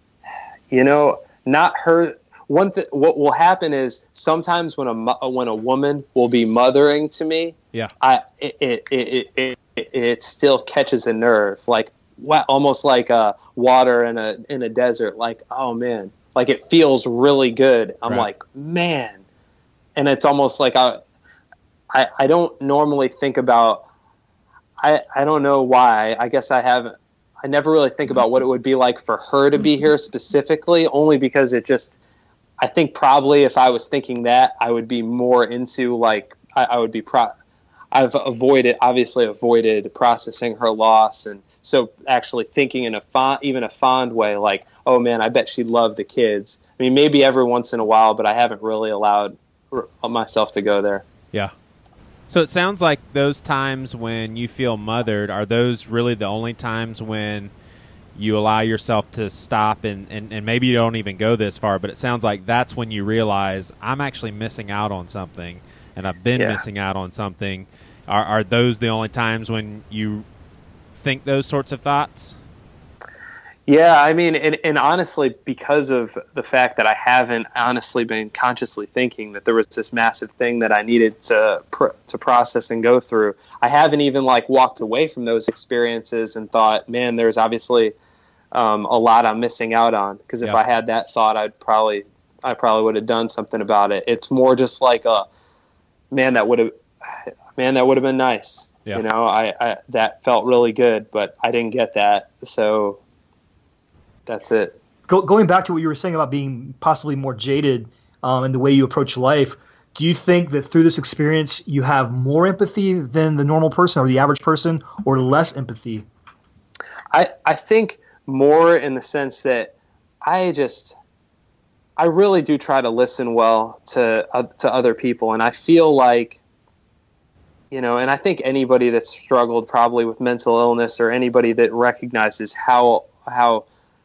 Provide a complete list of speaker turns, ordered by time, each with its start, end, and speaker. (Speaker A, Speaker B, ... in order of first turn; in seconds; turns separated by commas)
Speaker A: 0.7-19.2, Speaker A: 19.9-21.0, Speaker A: 21.9-23.8, Speaker A: 24.8-31.9, Speaker A: 32.6-37.3, Speaker A: 37.9-51.0, Speaker B: 52.3-57.5, Speaker B: 58.1-70.2, Speaker A: 66.4-66.6, Speaker B: 70.9-72.3, Speaker A: 73.7-87.9, Speaker A: 88.5-95.3, Speaker A: 96.1-96.7, Speaker A: 97.5-103.0, Speaker A: 104.3-104.8, Speaker C: 105.1-116.0, Speaker A: 117.1-120.9, Speaker A: 122.0-126.4, Speaker A: 127.7-133.6